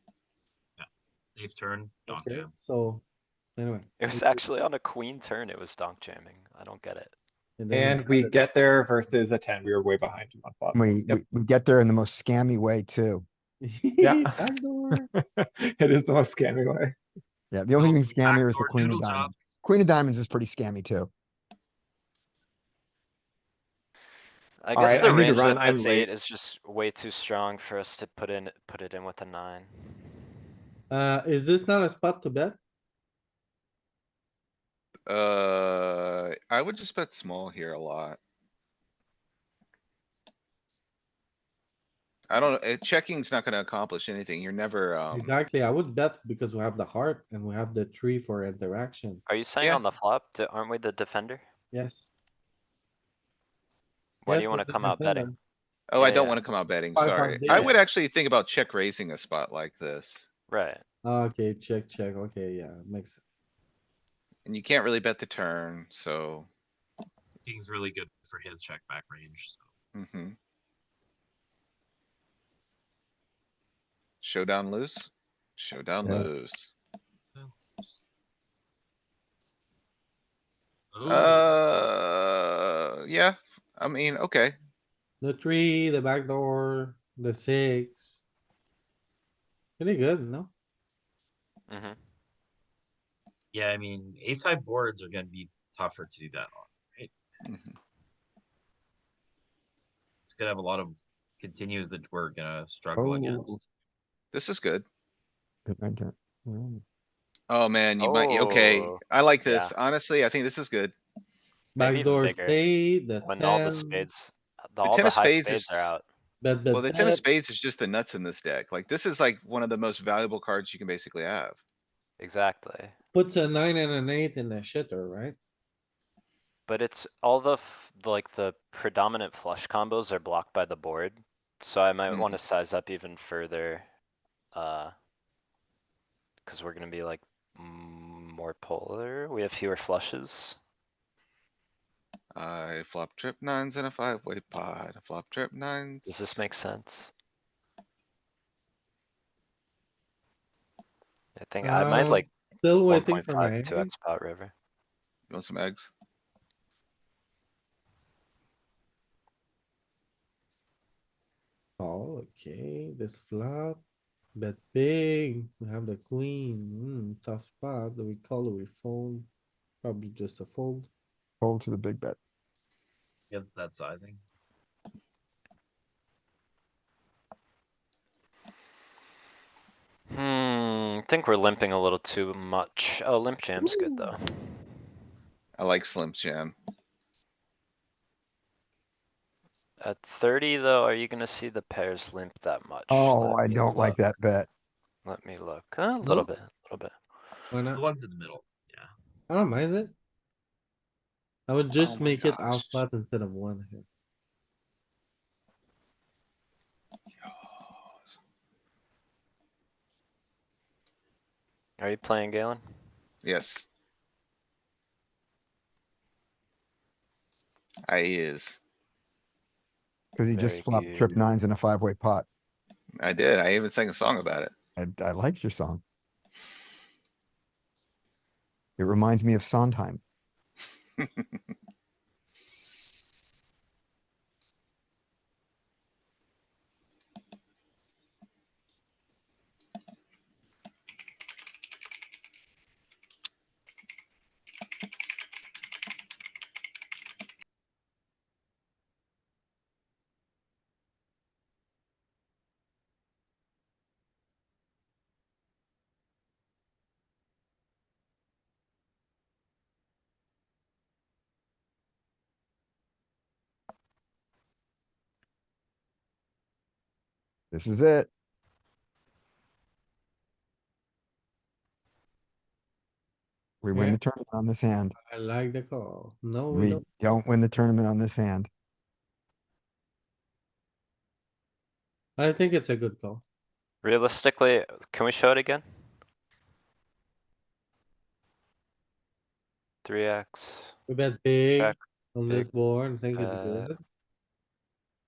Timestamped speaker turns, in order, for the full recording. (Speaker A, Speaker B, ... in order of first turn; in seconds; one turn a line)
Speaker A: 0.8-2.5
Speaker B: 2.1-3.0
Speaker B: 3.6-4.4
Speaker C: 4.0-7.1
Speaker B: 7.6-8.4
Speaker D: 7.7-11.2
Speaker E: 10.7-13.2
Speaker B: 13.6-15.1
Speaker D: 14.0-16.9
Speaker E: 17.5-21.1
Speaker A: 17.7-19.6
Speaker C: 24.6-30.1
Speaker D: 24.7-26.1
Speaker B: 30.9-32.6
Speaker F: 35.1-38.2
Speaker F: 42.3-45.3
Speaker B: 45.1-49.2
Speaker C: 49.3-51.5
Speaker B: 51.7-52.1
Speaker C: 54.2-55.3
Speaker B: 54.2-55.4
Speaker F: 55.9-60.3
Speaker C: 56.0-56.4
Speaker B: 56.9-57.8
Speaker C: 60.5-60.8
Speaker B: 61.0-63.2
Speaker F: 64.4-66.5
Speaker A: 67.4-69.6
Speaker F: 69.9-70.3
Speaker F: 74.2-76.7
Speaker A: 80.9-81.5
Speaker F: 81.1-84.5
Speaker B: 85.2-88.2
Speaker B: 89.8-90.5
Speaker C: 91.7-92.0
Speaker A: 93.5-97.1
Speaker F: 97.4-97.7
Speaker A: 100.2-103.6
Speaker E: 103.0-103.6
Speaker F: 104.3-104.8
Speaker E: 105.7-106.8
Speaker F: 107.5-110.9
Speaker C: 108.0-109.7
Speaker B: 111.7-114.1
Speaker C: 111.8-112.6
Speaker C: 113.2-116.0
Speaker F: 114.8-115.9
Speaker B: 116.4-117.2
Speaker F: 116.7-121.6
Speaker C: 122.2-123.0
Speaker B: 123.1-125.3
Speaker C: 126.7-133.9
Speaker F: 132.1-132.4
Speaker C: 134.5-134.9
Speaker C: 136.4-140.6
Speaker F: 142.3-146.4
Speaker C: 146.1-147.1
Speaker C: 151.3-152.3
Speaker B: 151.6-153.9
Speaker C: 152.9-154.5
Speaker F: 155.3-155.9
Speaker B: 161.8-163.8
Speaker B: 164.3-169.3
Speaker B: 169.8-170.9
Speaker E: 171.4-172.2
Speaker A: 173.3-174.2
Speaker C: 180.1-184.7
Speaker E: 183.6-184.0
Speaker F: 185.6-186.5
Speaker C: 189.8-194.1
Speaker E: 192.9-194.5
Speaker C: 195.0-197.4
Speaker B: 197.5-197.8
Speaker A: 197.7-198.9
Speaker B: 199.3-199.9
Speaker B: 201.5-203.8
Speaker F: 201.7-202.8
Speaker F: 207.2-208.2
Speaker C: 211.8-212.6
Speaker F: 213.2-213.7
Speaker F: 217.9-218.6
Speaker E: 220.2-222.2
Speaker C: 220.3-221.3
Speaker F: 222.9-224.5
Speaker E: 224.8-225.8
Speaker E: 228.8-230.0
Speaker F: 231.0-231.3
Speaker E: 267.5-268.1
Speaker E: 273.6-274.9
Speaker B: 273.7-274.0
Speaker B: 275.0-277.0
Speaker E: 276.5-278.5
Speaker B: 282.2-283.2
Speaker C: 283.8-285.6
Speaker C: 289.8-290.7
Speaker B: 290.9-293.8
Speaker C: 291.5-292.5
Speaker C: 293.1-293.7